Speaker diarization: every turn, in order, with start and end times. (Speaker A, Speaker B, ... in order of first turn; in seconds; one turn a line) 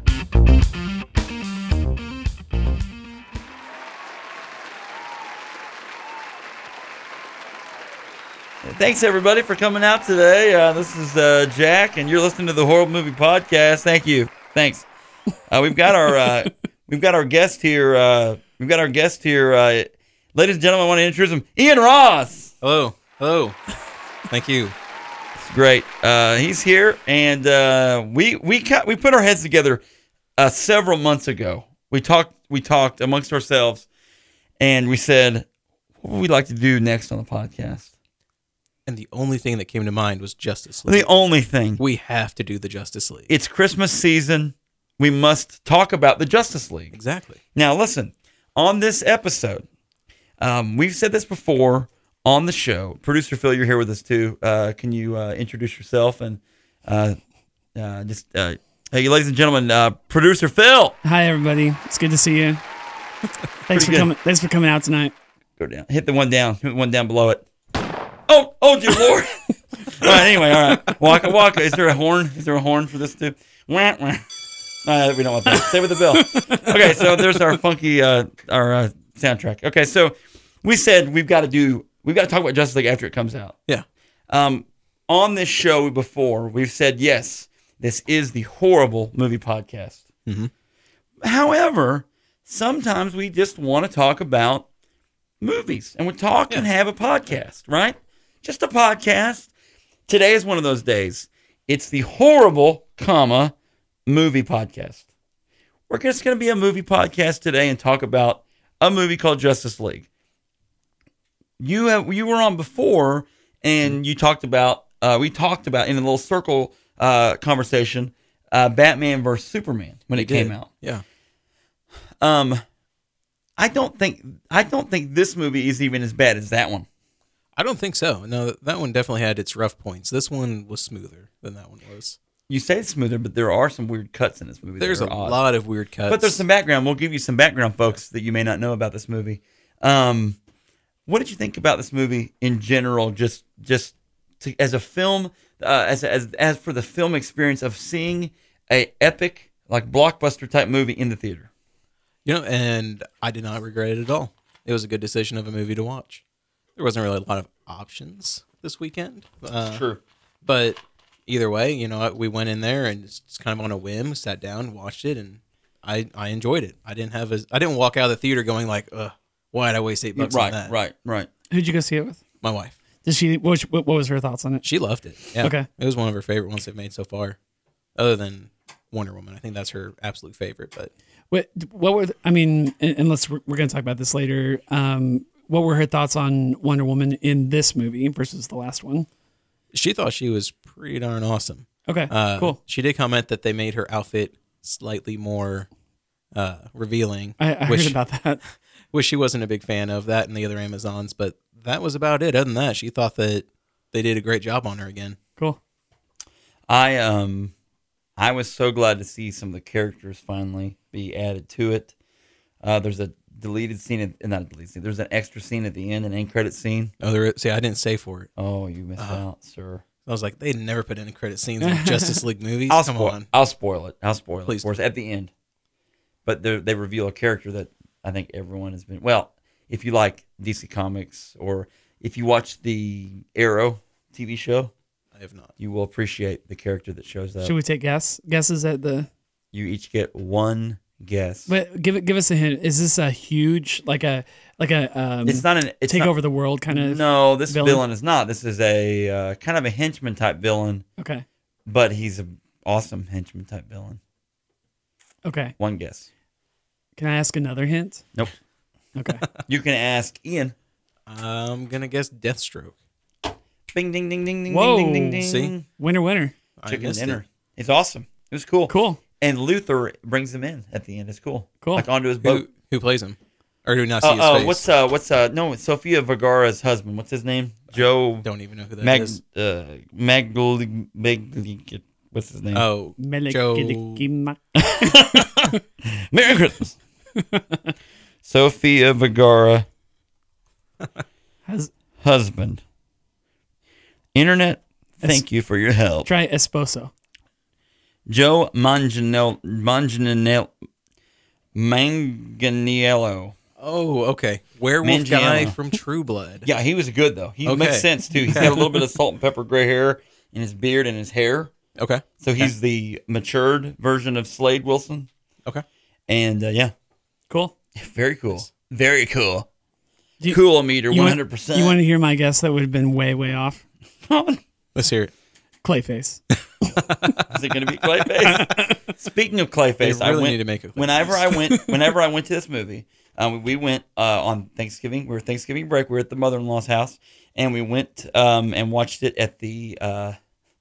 Speaker A: 8.6-14.8
Speaker A: 15.5-22.5
Speaker B: 22.6-23.6
Speaker B: 24.3-24.7
Speaker A: 25.4-29.8
Speaker A: 30.4-33.9
Speaker A: 34.6-35.5
Speaker A: 36.0-37.9
Speaker B: 38.9-41.1
Speaker A: 40.8-41.8
Speaker B: 41.8-43.3
Speaker A: 43.3-46.9
Speaker B: 46.9-47.4
Speaker A: 47.5-49.6
Speaker A: 50.4-57.2
Speaker A: 57.7-61.0
Speaker C: 61.0-62.6
Speaker C: 63.7-65.1
Speaker A: 63.7-64.1
Speaker A: 65.6-67.4
Speaker A: 68.3-74.2
Speaker A: 74.8-83.5
Speaker C: 76.1-77.2
Speaker A: 84.3-90.0
Speaker B: 90.2-90.5
Speaker A: 91.2-94.7
Speaker A: 95.4-99.5
Speaker A: 100.1-103.5
Speaker A: 104.1-105.0
Speaker A: 105.9-110.1
Speaker A: 111.6-120.7
Speaker B: 120.1-121.0
Speaker A: 122.2-122.6
Speaker A: 123.6-126.8
Speaker B: 127.5-132.2
Speaker A: 132.5-135.4
Speaker B: 134.8-136.4
Speaker A: 136.1-140.4
Speaker A: 141.1-151.5
Speaker B: 152.2-156.2
Speaker B: 156.8-159.8
Speaker A: 159.7-160.0
Speaker B: 160.4-170.7
Speaker A: 170.1-171.3
Speaker C: 171.5-172.2
Speaker B: 172.4-172.8
Speaker C: 173.0-174.6
Speaker B: 174.6-177.4
Speaker C: 175.3-175.7
Speaker B: 177.9-180.9
Speaker C: 181.3-189.1
Speaker B: 189.7-195.7
Speaker C: 191.9-192.6
Speaker B: 196.3-198.0
Speaker C: 197.4-198.4
Speaker B: 198.9-205.2
Speaker A: 206.7-207.5
Speaker A: 208.2-211.9
Speaker A: 212.6-216.9
Speaker B: 217.0-218.3
Speaker A: 218.4-219.8
Speaker B: 219.0-219.2
Speaker B: 220.1-223.3
Speaker C: 221.6-222.2
Speaker A: 222.7-225.3
Speaker A: 226.2-234.7
Speaker B: 235.1-235.5
Speaker A: 235.6-237.5
Speaker C: 237.4-239.1
Speaker A: 239.5-241.5
Speaker C: 241.5-247.8
Speaker A: 245.2-246.1
Speaker A: 246.7-250.8
Speaker C: 251.0-251.2
Speaker A: 251.7-254.0
Speaker C: 255.2-255.6
Speaker A: 255.6-256.1
Speaker C: 257.0-258.1
Speaker C: 258.9-259.2
Speaker A: 259.4-260.5
Speaker B: 261.1-262.7
Speaker A: 263.7-265.6
Speaker C: 264.5-266.4
Speaker B: 265.2-265.5
Speaker B: 266.6-267.2
Speaker A: 266.7-272.4
Speaker C: 268.7-269.0
Speaker B: 272.2-274.6
Speaker A: 274.0-278.3
Speaker B: 277.7-279.2
Speaker A: 278.8-282.6
Speaker B: 282.5-284.1
Speaker C: 283.0-285.6
Speaker A: 284.5-286.8
Speaker C: 287.2-287.6
Speaker A: 288.2-289.7
Speaker A: 292.0-292.6
Speaker A: 294.1-296.1
Speaker C: 296.0-296.9
Speaker A: 298.1-300.5
Speaker A: 301.5-303.3
Speaker B: 303.6-306.5
Speaker A: 304.8-305.6
Speaker A: 306.4-311.5
Speaker B: 307.4-308.6
Speaker B: 311.8-312.5
Speaker A: 312.2-315.1
Speaker A: 316.1-316.7
Speaker A: 317.7-319.5
Speaker C: 320.2-323.6
Speaker A: 320.3-321.8
Speaker A: 324.1-324.4
Speaker B: 324.7-325.1
Speaker C: 325.6-327.1
Speaker A: 327.3-340.1
Speaker C: 328.2-328.8
Speaker B: 329.8-331.7